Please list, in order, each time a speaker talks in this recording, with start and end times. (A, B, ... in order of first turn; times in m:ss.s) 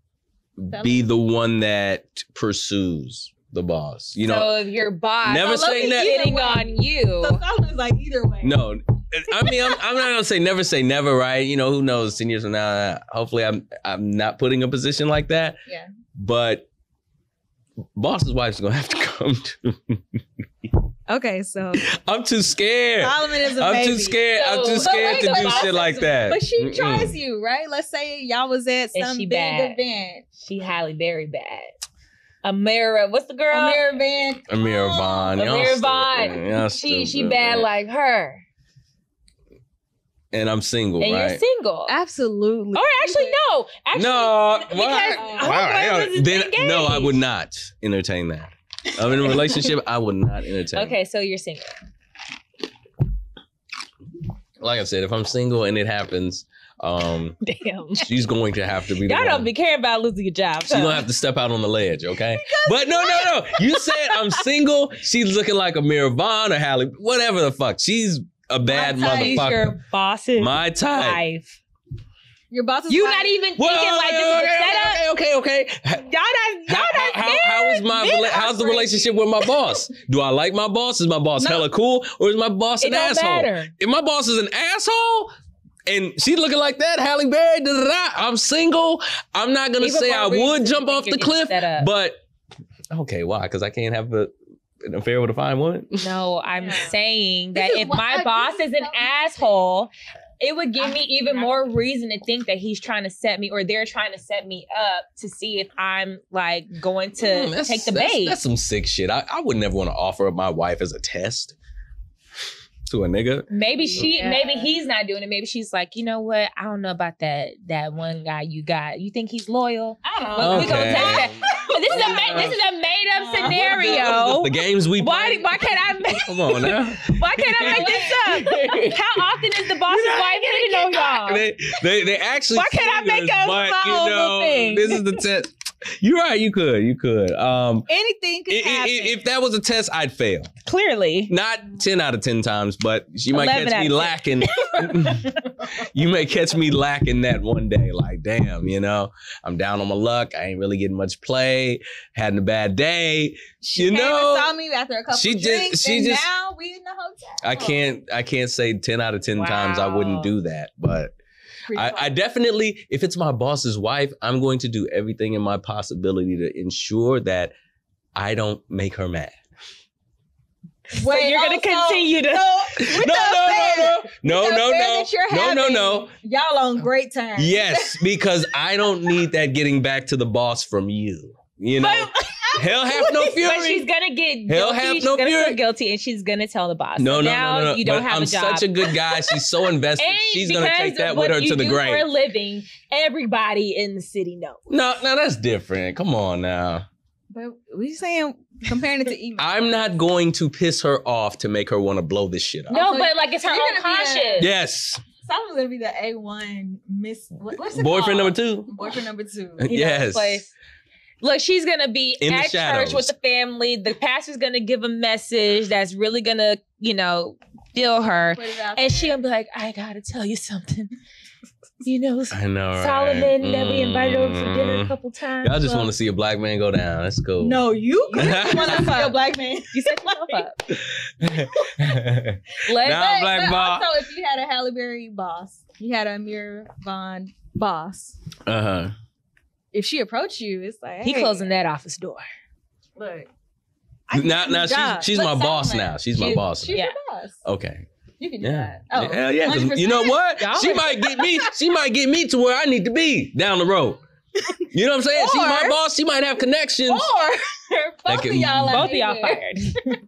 0:00.6-0:04.5 A
0:00.7-0:01.1 B
0:04.2-0:07.4 C
0:05.2-0:06.2 A
0:05.4-0:08.6 B
0:08.4-0:15.6 A
0:09.4-0:09.8 B
0:16.2-0:16.7 A
0:18.0-0:20.8 A
0:21.1-0:21.8 B
0:21.9-0:27.2 A
0:23.0-0:30.2 B
0:24.4-0:25.8 C
0:29.0-0:29.8 C
0:30.4-0:31.7 C
0:32.4-0:33.8 C
0:33.5-0:35.4 B
0:34.5-0:37.7 A
0:35.4-0:38.4 C
0:40.3-0:41.4 A
0:41.0-0:41.9 C
0:41.9-0:43.4 B
0:42.7-0:47.2 C
0:43.9-0:51.0 A
0:45.1-0:45.6 B
0:49.2-0:49.6 C
0:50.7-0:51.8 C
0:54.6-0:57.4 A
0:57.4-0:58.1 C
0:58.0-0:59.5 A
0:59.0-1:01.1 C
1:00.6-1:09.7 A
1:02.2-1:04.4 B
1:08.7-1:09.5 B
1:09.0-1:11.6 C
1:10.4-1:11.2 A
1:12.5-1:13.4 B
1:12.9-1:15.0 C
1:13.6-1:16.1 A
1:16.1-1:18.9 C
1:16.7-1:25.3 A
1:18.5-1:19.1 B
1:21.4-1:21.6 B
1:22.8-1:23.7 C
1:25.9-1:32.2 A
1:29.8-1:31.9 C
1:32.9-1:36.1 A
1:36.0-1:48.4 C
1:36.6-1:37.0 B
1:37.6-1:39.5 B
1:40.8-1:41.6 B
1:47.2-1:51.6 A
1:52.9-1:54.1 A
1:53.5-2:11.5 C
1:53.9-1:54.7 B
2:00.0-2:02.6 B
2:00.4-2:01.3 A
2:01.9-2:02.6 A
2:03.1-2:04.2 B
2:03.7-2:17.9 A
2:07.6-2:08.2 B
2:12.5-2:13.4 C
2:13.2-2:15.0 B
2:17.9-2:19.2 B
2:18.5-2:20.5 A
2:20.7-2:21.3 C
2:21.3-2:34.5 A
2:23.3-2:25.6 C
2:33.6-2:37.9 B
2:35.1-2:36.3 A
2:37.4-2:41.2 A
2:39.4-2:40.3 C
2:41.7-2:42.2 B
2:41.7-2:47.5 A
2:48.2-2:49.4 A
2:50.9-2:52.5 C
2:50.9-2:58.2 B
2:52.8-2:56.1 A
2:57.4-3:03.9 A
3:01.8-3:02.5 C
3:02.2-3:03.4 B
3:03.4-3:08.7 C
3:04.5-3:05.6 A
3:07.0-3:12.1 A
3:10.0-3:14.6 C
3:14.7-3:16.9 A
3:17.3-3:19.9 B
3:19.4-3:22.7 A
3:22.7-3:24.5 C
3:22.7-3:24.5 B
3:24.4-3:25.0 A
3:25.2-3:29.7 B
3:27.7-3:28.8 A
3:29.6-3:30.4 A
3:29.7-3:30.5 C
3:31.2-3:40.9 C
3:32.2-3:33.1 A
3:38.3-3:39.2 B
3:41.8-3:45.9 C
3:42.3-3:49.2 A
3:47.4-3:50.5 B
3:48.2-3:48.9 C
3:49.7-3:50.6 C
3:50.7-3:53.9 A
3:51.3-3:52.0 B
3:52.7-3:53.1 C
3:52.8-3:58.2 B
3:58.5-3:58.9 A
3:59.7-4:01.5 B
4:01.0-4:02.3 C
4:03.0-4:03.3 B
4:04.1-4:07.4 B
4:04.1-4:06.8 A
4:06.2-4:07.0 C
4:07.4-4:07.9 A
4:08.2-4:11.5 B
4:08.4-4:14.0 A
4:10.4-4:10.9 C
4:14.7-4:17.1 A
4:15.1-4:15.8 B
4:16.9-4:20.0 B
4:18.1-4:18.9 A
4:18.7-4:19.9 C